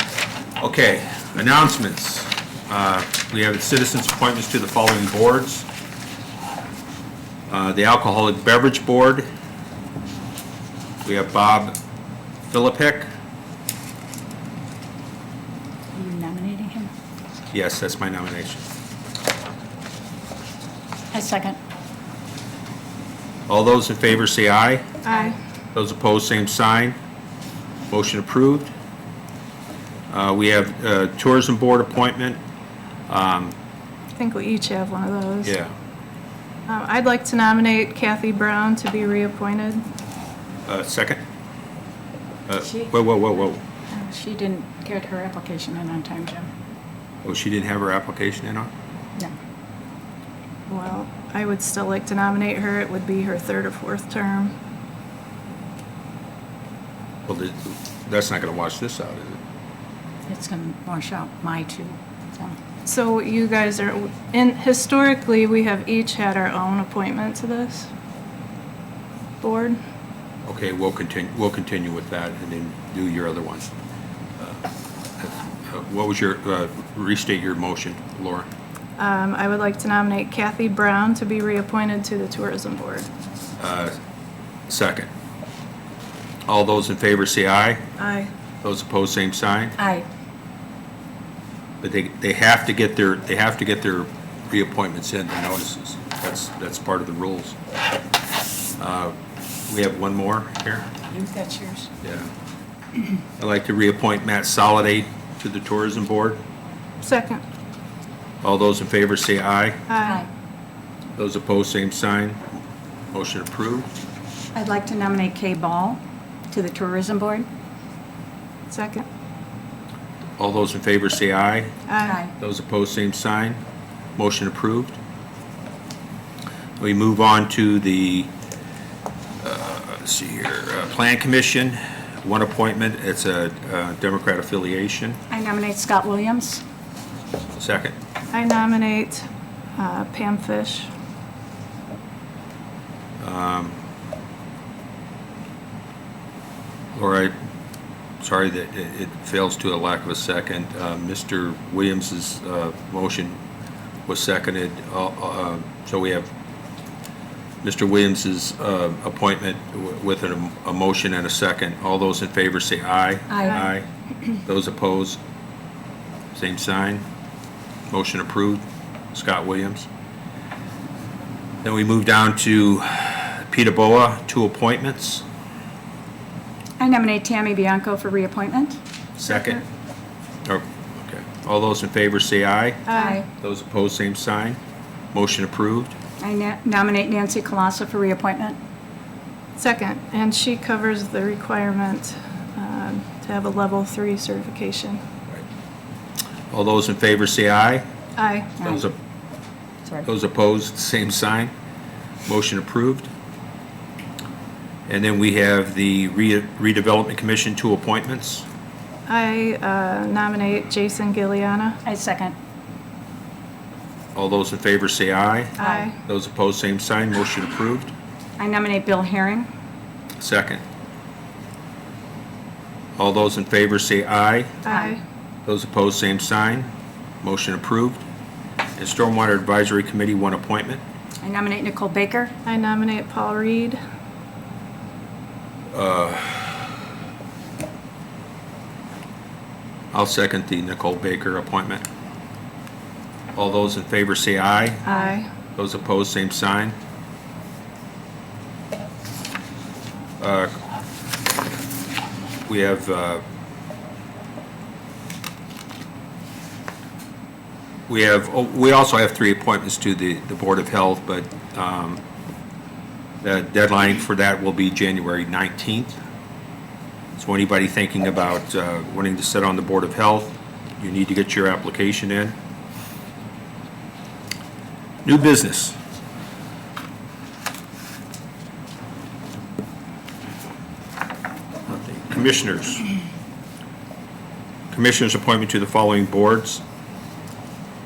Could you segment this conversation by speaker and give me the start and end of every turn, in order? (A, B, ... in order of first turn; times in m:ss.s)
0:00.6-0:05.7 A
0:07.5-0:09.2 A
0:11.0-0:11.8 A
0:12.5-0:13.1 A
0:15.9-0:16.9 B
0:17.5-0:18.7 A
0:21.1-0:21.6 B
0:23.5-0:24.9 A
0:25.1-0:25.4 B
0:25.7-0:27.0 A
0:27.9-0:28.7 A
0:30.1-0:32.4 A
0:33.1-0:33.5 A
0:34.2-0:35.5 C
0:35.4-0:35.7 A
0:36.7-0:39.8 C
0:40.6-0:41.2 A
0:42.5-0:43.6 A
0:44.0-0:46.5 B
0:47.2-0:48.7 A
0:50.7-0:54.5 C
0:57.3-0:59.4 A
1:00.3-1:02.6 B
1:02.8-1:07.9 C
1:09.4-1:09.8 C
1:10.4-1:13.7 A
1:15.2-1:18.5 A
1:19.0-1:23.1 C
1:23.6-1:24.0 A
1:24.7-1:25.1 A
1:26.5-1:27.8 A
1:28.0-1:28.3 C
1:28.6-1:29.8 A
1:29.8-1:30.0 B
1:31.8-1:37.6 A
1:38.8-1:39.1 A
1:39.7-1:40.9 A
1:41.1-1:41.9 B
1:42.0-1:42.3 A
1:43.4-1:46.4 A
1:47.0-1:47.4 C
1:48.4-1:49.8 A
1:49.9-1:50.2 C
1:50.0-1:50.3 B
1:51.2-1:52.4 A
1:53.1-1:53.9 A
1:54.5-1:57.5 B
1:58.7-1:59.0 C
2:00.4-2:01.7 A
2:01.9-2:02.2 C
2:02.0-2:02.3 B
2:02.4-2:03.6 A
2:04.2-2:05.0 A
2:06.8-2:08.3 A
2:09.4-2:15.2 A
2:15.3-2:16.6 B
2:17.5-2:18.0 A
2:18.3-2:20.9 C
2:23.2-2:23.8 A
2:26.9-2:27.3 A
2:28.2-2:33.4 A
2:34.1-2:36.3 A
2:37.6-2:43.9 A
2:43.3-2:43.7 B
2:44.4-2:45.2 A
2:46.3-2:47.0 A
2:47.9-2:49.9 A
2:51.6-2:55.2 A
2:56.8-2:58.8 B
2:59.2-2:59.6 A
2:59.3-2:59.6 C
3:00.4-3:02.8 A
3:02.8-3:03.2 C
3:02.9-3:03.3 B
3:03.4-3:04.6 A
3:05.1-3:06.0 A
3:06.2-3:08.6 B
3:09.6-3:15.0 C
3:16.5-3:17.8 A
3:18.2-3:18.6 C
3:18.6-3:18.8 B
3:18.6-3:18.9 A
3:20.0-3:21.5 A
3:22.2-3:23.1 A
3:24.9-3:28.4 A
3:29.1-3:31.8 C
3:31.8-3:32.3 B
3:34.1-3:37.9 A
3:35.6-3:35.9 B
3:35.6-3:36.0 C
3:38.4-3:39.5 B
3:40.2-3:40.6 A
3:43.0-3:44.6 A
3:44.6-3:45.0 C
3:44.6-3:45.0 B
3:45.4-3:46.7 A
3:47.2-3:48.0 A
3:48.8-3:50.8 A
3:51.2-3:52.3 B
3:52.4-3:53.8 C
3:55.7-3:56.8 A
3:59.9-4:01.8 A
4:03.3-4:04.8 A
4:04.8-4:05.2 B
4:05.5-4:06.7 A
4:10.2-4:10.5 A
4:12.4-4:13.2 A
4:17.9-4:22.0 A
4:23.2-4:26.0 A
4:27.2-4:32.3 A
4:35.0-4:35.8 A
4:41.7-4:42.8 A
4:44.7-4:46.6 A